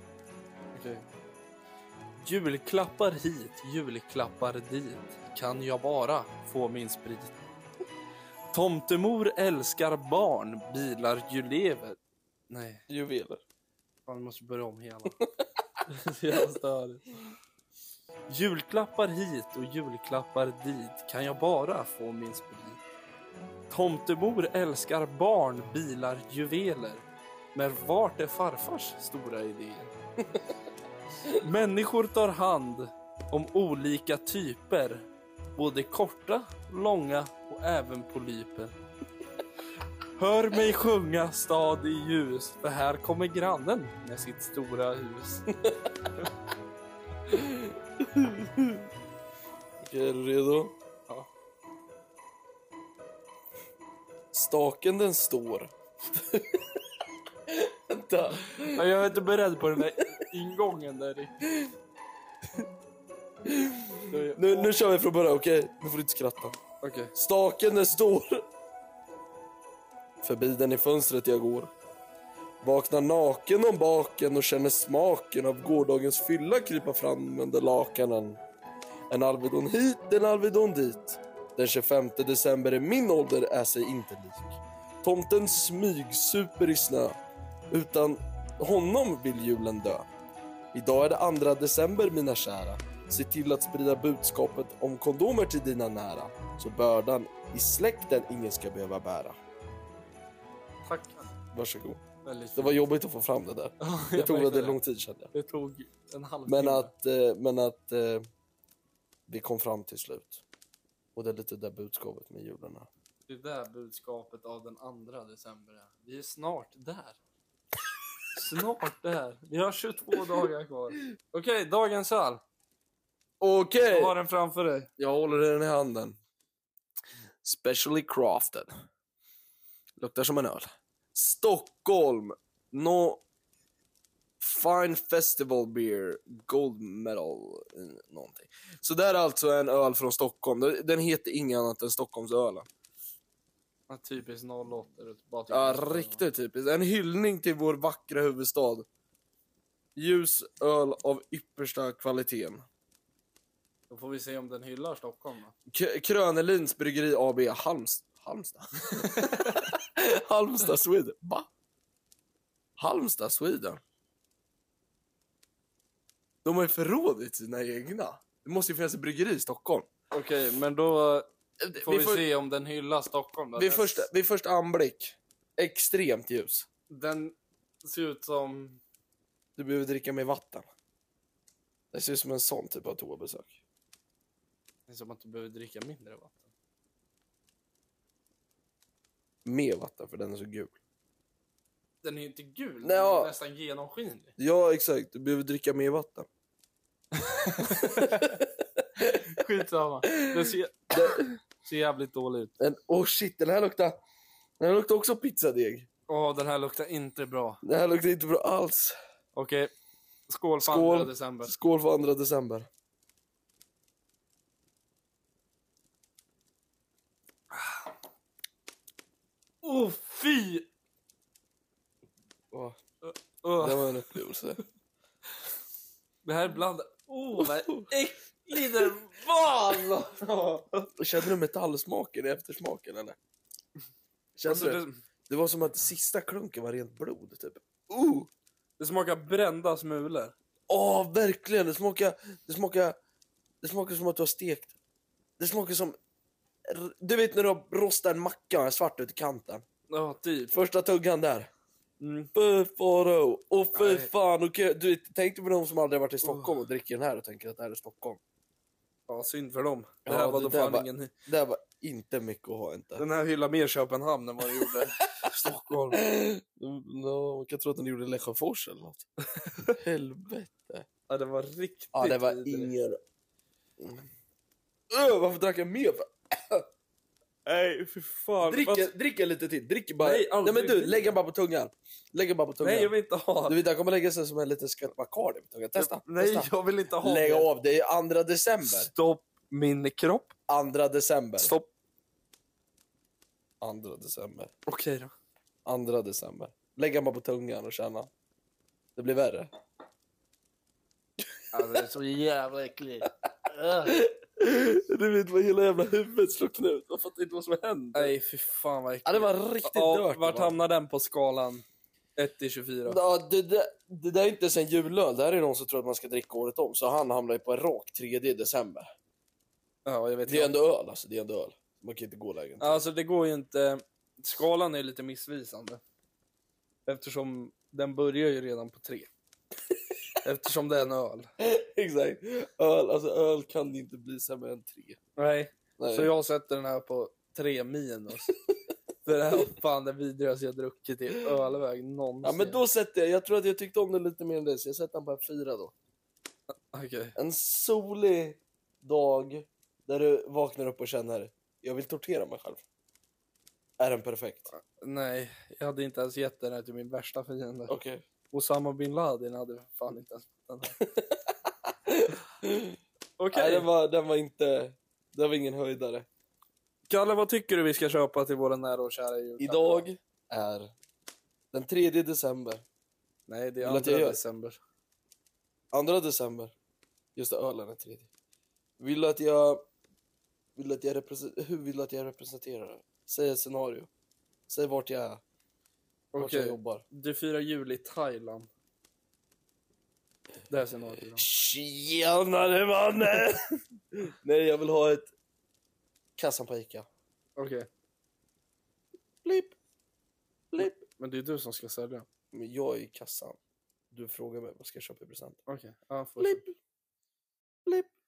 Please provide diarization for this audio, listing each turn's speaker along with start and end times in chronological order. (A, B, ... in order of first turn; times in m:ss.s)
0:00.7-0:01.1 A
0:02.2-0:07.4 A
0:08.5-0:12.0 A
0:12.5-0:12.8 A
0:12.9-0:13.4 B
0:14.1-0:15.2 A
0:15.9-0:17.0 A
0:18.3-0:22.8 A
0:23.7-0:29.9 A
0:31.4-0:35.0 A
0:35.6-0:38.7 A
0:40.2-0:45.4 A
0:45.6-0:45.9 B
0:47.3-0:48.8 B
0:49.8-0:50.7 B
0:54.3-0:56.6 B
0:57.5-0:58.8 B
0:58.7-1:01.3 A
1:03.5-1:06.6 B
1:04.1-1:04.7 A
1:06.8-1:07.1 A
1:07.1-1:08.4 B
1:10.2-1:11.7 B
1:12.6-1:18.4 B
1:19.1-1:27.2 B
1:27.7-1:30.1 B
1:30.7-1:39.4 B
1:40.8-1:41.3 A
1:41.5-1:42.0 B
1:42.2-1:42.8 A
1:42.6-1:45.3 B
1:43.8-1:44.8 A
1:45.3-1:46.9 A
1:46.5-1:48.2 B
1:49.3-1:50.4 B
1:51.2-1:52.9 B
1:53.3-1:57.2 A
1:58.4-2:02.4 A
2:03.4-2:04.2 B
2:03.9-2:04.9 A
2:05.0-2:06.2 B
2:07.4-2:08.7 B
2:10.0-2:13.2 B
2:14.4-2:22.7 B
2:23.9-2:26.2 A
2:25.5-2:28.9 B
2:30.0-2:32.7 B
2:33.9-2:35.5 A
2:35.7-2:41.5 B
2:39.1-2:39.5 A
2:42.8-2:43.8 B
2:46.4-2:49.9 B
2:50.1-2:51.3 A
2:51.6-2:52.2 B
2:51.8-2:54.1 A
2:53.6-2:56.7 B
2:56.9-2:58.8 A
2:59.6-3:00.7 B
3:01.9-3:03.6 B
3:04.9-3:06.5 A
3:09.4-3:10.8 B
3:12.0-3:14.3 A
3:12.8-3:13.3 B
3:14.4-3:16.3 B
3:17.2-3:18.3 A
3:18.0-3:19.2 B
3:19.1-3:20.9 A
3:20.1-3:20.3 B
3:20.9-3:21.3 B
3:21.6-3:22.5 A
3:22.6-3:24.0 B
3:24.6-3:25.9 B
3:26.1-3:27.6 A
3:27.6-3:29.0 B
3:29.4-3:29.7 A
3:30.3-3:31.5 A
3:30.6-3:32.7 B
3:37.6-3:37.8 A
3:39.6-3:40.7 A
3:42.5-3:42.8 B
3:43.0-3:44.0 A
3:43.6-3:44.6 B
3:46.2-3:50.9 A
3:47.4-3:47.9 B
3:51.0-3:53.2 B
3:54.4-3:58.3 B
3:54.5-3:55.0 A
3:58.8-4:00.4 A
4:00.7-4:03.0 B
4:03.6-4:04.8 B
4:05.4-4:06.0 B
4:06.7-4:09.6 B
4:09.9-4:10.5 A
4:10.5-4:11.5 B
4:12.0-4:12.3 A
4:12.3-4:18.2 B
4:13.7-4:14.1 A
4:16.2-4:16.6 A
4:19.1-4:21.1 A
4:20.0-4:23.1 B
4:23.0-4:26.0 A
4:25.9-4:29.1 B
4:29.4-4:29.7 A
4:29.8-4:30.9 B
4:31.1-4:32.7 A
4:31.9-4:33.0 B
4:33.8-4:34.0 B
4:34.9-4:36.7 B
4:37.5-4:38.9 A
4:38.4-4:42.9 B
4:40.0-4:41.2 A
4:42.6-4:43.6 A
4:43.5-4:48.9 B
4:45.8-4:47.5 A
4:48.6-4:50.4 A
4:50.5-4:51.5 B
4:51.4-4:51.7 A
4:53.6-4:54.5 B
4:54.7-4:55.1 A
4:55.7-4:58.1 B
4:59.0-4:59.5 B
5:01.5-5:04.0 A
5:03.8-5:08.2 B
5:07.9-5:11.6 A
5:09.1-5:10.6 B
5:12.2-5:13.0 A
5:12.9-5:18.9 B
5:19.8-5:20.5 A
5:20.3-5:22.8 B
5:22.6-5:25.8 A
5:26.9-5:29.1 A
5:30.2-5:31.3 A
5:31.4-5:35.0 B
5:35.2-5:38.3 A
5:35.8-5:36.1 B
5:39.1-5:42.6 A
5:42.2-5:45.7 B
5:46.7-5:47.2 A
5:47.2-5:52.6 B
5:53.8-5:54.5 B
5:54.5-5:57.8 A
5:57.7-5:58.0 B
5:58.3-6:00.8 A
6:00.8-6:01.4 B
6:01.9-6:02.8 B
6:03.2-6:03.7 A
6:03.3-6:06.1 B
6:06.9-6:09.9 A
6:09.4-6:10.7 B
6:11.5-6:12.6 B
6:13.3-6:14.6 A
6:13.6-6:14.2 B
6:15.7-6:16.6 B
6:17.2-6:18.1 B
6:18.8-6:19.6 B
6:20.6-6:23.9 B
6:24.5-6:25.2 B
6:26.1-6:28.5 A
6:26.2-6:26.8 B
6:30.5-6:31.3 A
6:31.1-6:33.4 B
6:34.0-6:35.1 B
6:36.2-6:36.9 B
6:37.4-6:37.7 A
6:39.2-6:39.6 B
6:40.5-6:40.9 B
6:40.6-6:42.1 A
6:42.3-6:43.4 B
6:43.9-6:45.4 B
6:45.5-6:46.4 A
6:46.2-6:46.6 B